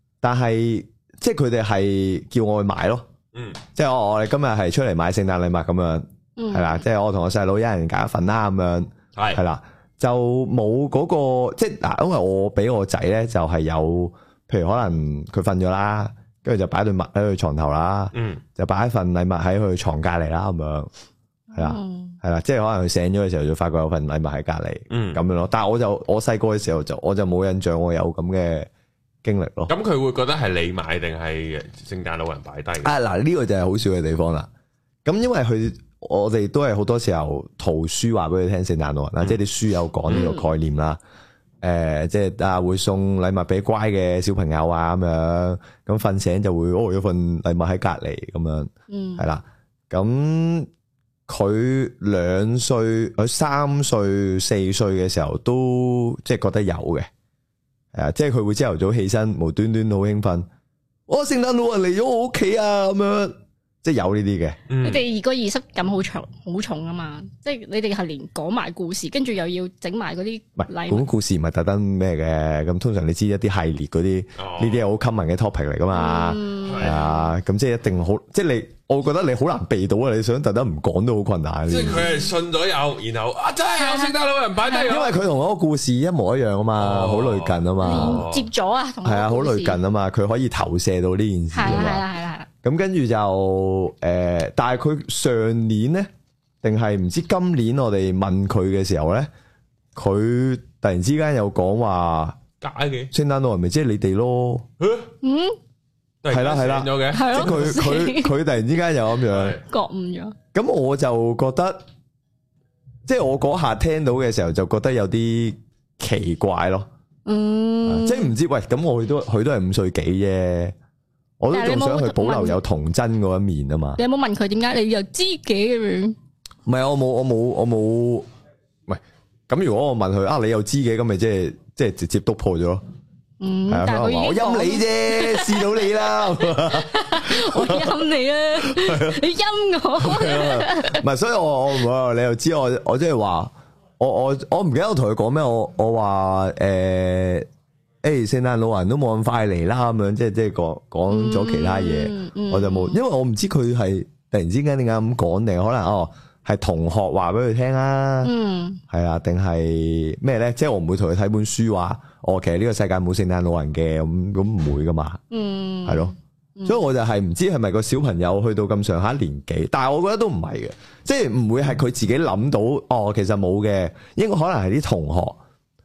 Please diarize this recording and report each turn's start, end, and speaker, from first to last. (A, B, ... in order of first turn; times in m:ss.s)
0:00.2-0:03.1 A
0:03.3-0:03.6 B
0:03.8-0:20.9 A
0:06.4-0:06.8 C
0:09.2-0:09.4 B
0:18.1-0:18.4 B
0:21.5-0:22.2 C
0:21.6-0:28.7 A
0:24.9-0:25.2 B
0:29.2-0:29.7 A
0:29.7-0:32.9 B
0:32.8-0:34.5 A
0:35.0-0:41.0 A
0:40.1-0:40.5 C
0:41.6-0:50.7 A
0:48.9-0:49.2 C
0:51.3-0:57.1 A
0:57.9-1:00.5 A
1:01.1-1:04.6 A
1:04.7-1:05.0 B
1:04.8-1:11.1 C
1:10.6-1:22.1 A
1:14.4-1:14.8 B
1:15.9-1:17.3 C
1:16.6-1:17.0 B
1:21.7-1:25.2 B
1:22.0-1:22.2 C
1:23.6-1:24.9 C
1:24.9-1:28.3 A
1:26.8-1:28.5 B
1:27.8-1:29.8 C
1:29.0-1:32.0 A
1:31.5-1:32.5 C
1:32.6-1:36.1 A
1:36.6-1:39.3 A
1:39.9-1:42.4 A
1:42.6-1:43.1 B
1:43.1-1:44.6 A
1:44.8-1:45.1 B
1:45.2-1:45.6 C
1:46.2-1:47.6 B
1:46.3-1:49.6 A
1:47.1-1:48.4 C
1:49.3-1:49.6 B
1:49.6-1:50.4 C
1:50.5-1:51.8 A
1:53.1-1:56.9 A
1:57.3-1:58.4 C
1:57.8-2:00.8 A
2:01.4-2:04.0 A
2:01.5-2:02.6 C
2:04.0-2:06.2 C
2:06.6-2:08.3 A
2:08.9-2:12.8 A
2:13.4-2:15.8 C
2:13.7-2:18.0 A
2:16.5-2:21.0 C
2:18.6-2:19.2 A
2:20.0-2:27.5 A
2:28.0-2:38.3 A
2:31.1-2:33.0 C
2:38.2-2:38.8 C
2:38.9-2:45.2 A
2:45.3-2:46.8 C
2:45.9-2:46.1 A
2:46.6-2:55.4 A